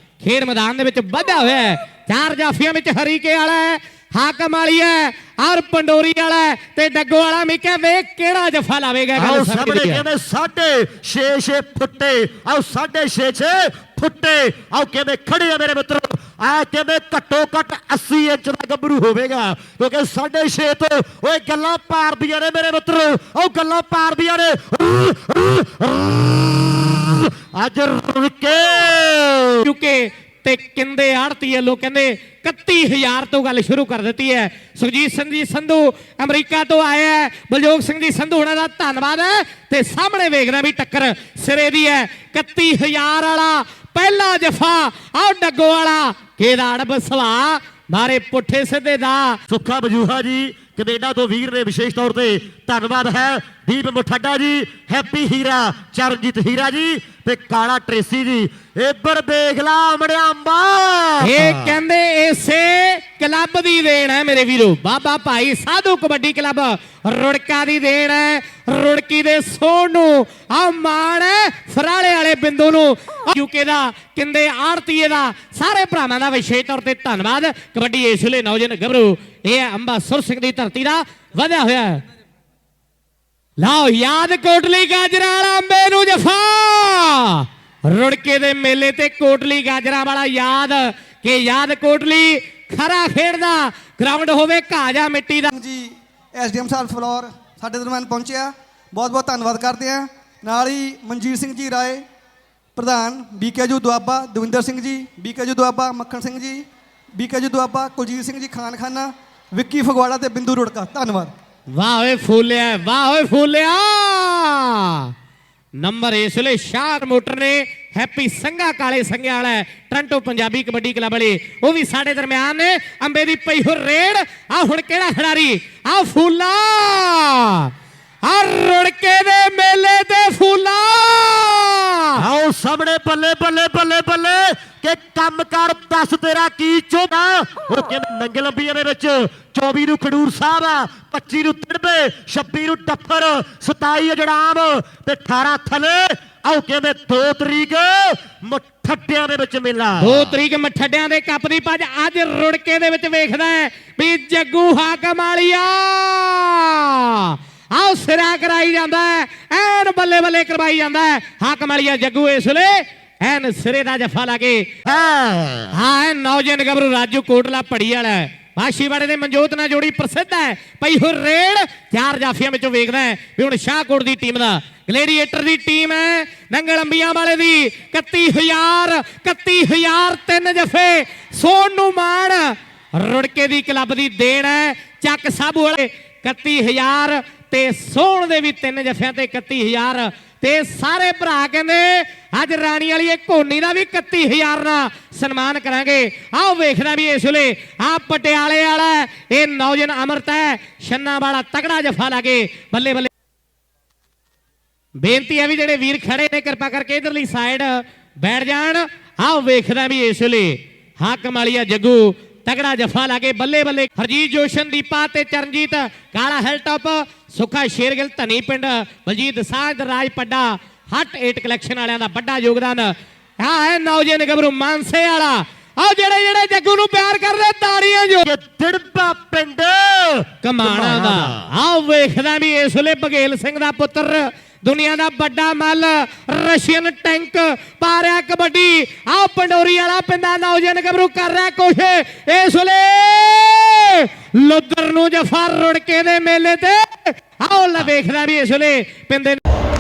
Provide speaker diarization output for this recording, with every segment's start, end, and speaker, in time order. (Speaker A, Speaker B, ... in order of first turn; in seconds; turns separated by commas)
Speaker A: 0.2-10.0, Speaker B: 9.2-29.6, Speaker A: 29.6-49.4, Speaker B: 49.5-61.8, Speaker A: 61.2-82.0, Speaker A: 83.6-95.5, Speaker C: 95.5-102.0, Speaker C: 102.8-111.3, Speaker A: 111.7-115.1, Speaker A: 115.8-127.7, Speaker A: 128.2-132.2, Speaker B: 132.2-150.3, Speaker A: 150.0-164.7, Speaker B: 164.9-165.7, Speaker A: 165.8-203.1, Speaker A: 205.0-228.3, Speaker B: 228.3-231.4, Speaker A: 230.4-249.4